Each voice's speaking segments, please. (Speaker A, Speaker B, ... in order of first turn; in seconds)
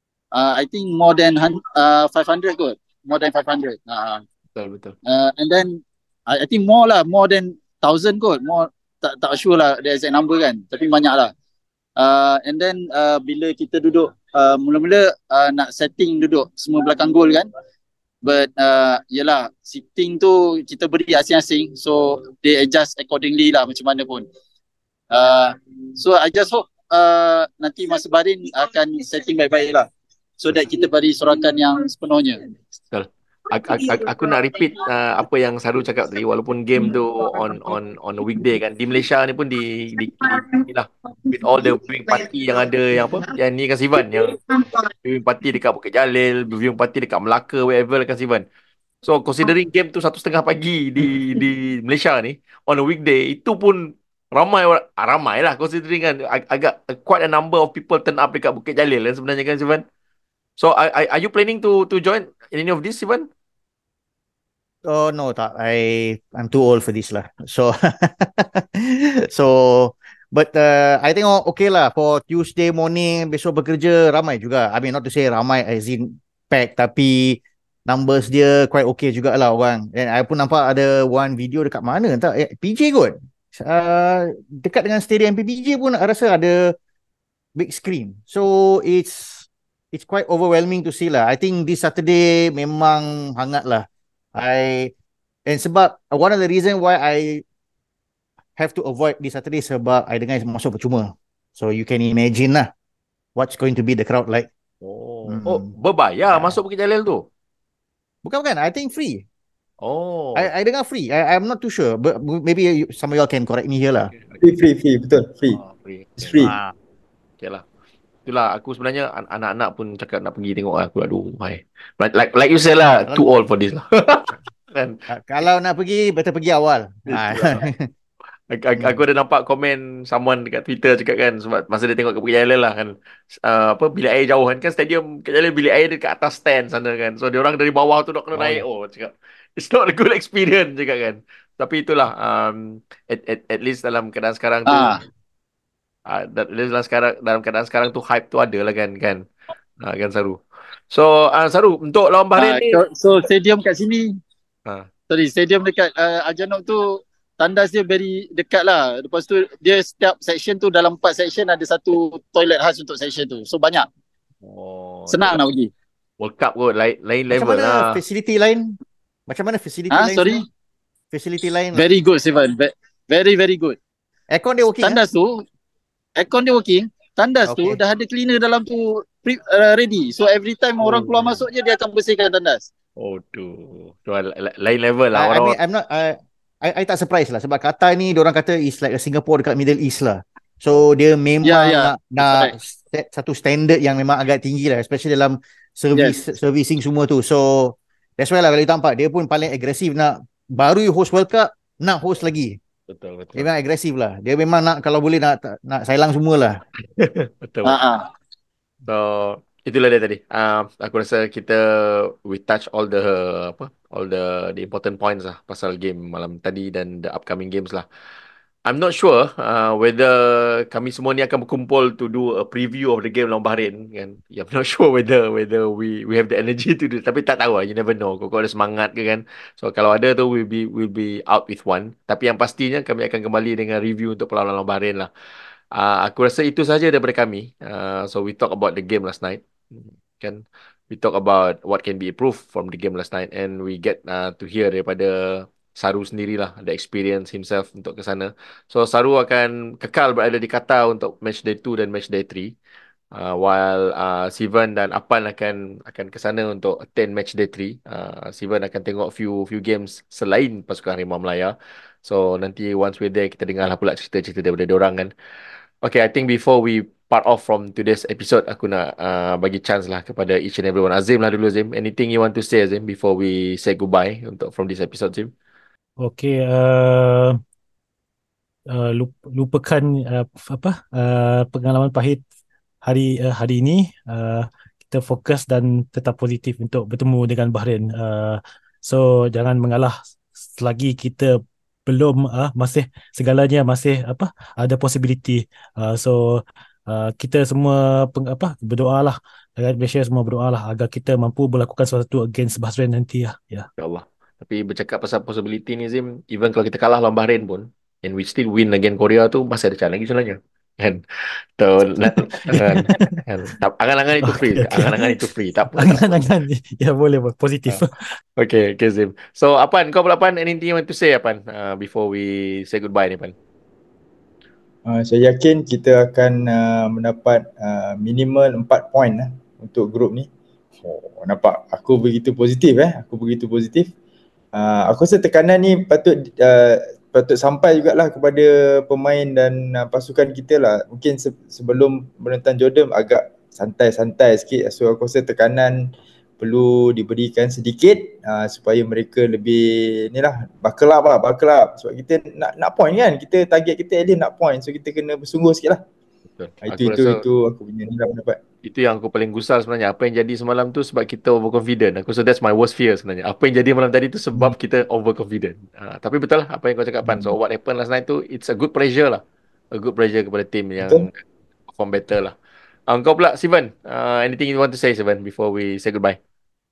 Speaker A: 0.3-4.2, 5.1-11.3, 12.0-17.5, 18.2-24.3, 25.1-29.9, 30.4-32.4, 144.7-145.0, 152.4-154.1, 155.1-163.9, 165.1-165.7, 169.9-170.4, 171.8-173.8, 174.8-175.3, 176.2-182.7, 191.4-192.5, 207.6-208.1
Speaker B: 4.5-5.0, 32.9-44.4, 45.0-48.4, 49.0-59.8, 60.6-63.3, 104.8-107.2, 109.8-110.5, 114.1-114.6, 115.5-116.4, 118.3-125.0, 127.1-127.7, 128.5-144.9, 146.1-149.2, 149.8-150.4, 150.9-152.8, 164.4-165.4, 166.2-168.0, 180.8-181.4, 183.0-185.6, 202.9-203.5, 206.8-207.8, 208.9-217.8, 218.7-235.1, 235.7-252.5, 253.1-265.1, 265.8-275.3, 303.8-311.0, 311.6-316.2, 318.4-323.3, 356.4-357.2, 358.6-371.2, 371.7-372.3, 372.9-376.2
Speaker C: 64.8-86.8, 87.6-94.9, 95.5-97.4, 98.6-102.7, 103.4-104.5, 105.3-105.7, 106.3-106.6, 108.2-109.3, 110.3-114.1, 116.4-116.7, 122.8-123.2, 125.1-127.9, 128.8-129.0, 138.3-138.7, 167.3-168.8, 169.3-170.4, 171.1-171.8, 174.3-175.0, 177.5-177.8, 185.1-202.6, 203.3-206.6
Speaker D: 114.4-115.6, 116.2-116.5, 324.9-330.3, 330.8-333.9, 334.5-355.8, 356.7-358.4, 367.0-367.4, 370.8-371.1
Speaker E: 276.0-277.4, 278.7-282.2, 282.8-303.7, 312.1-313.1, 314.2-315.2, 315.7-318.1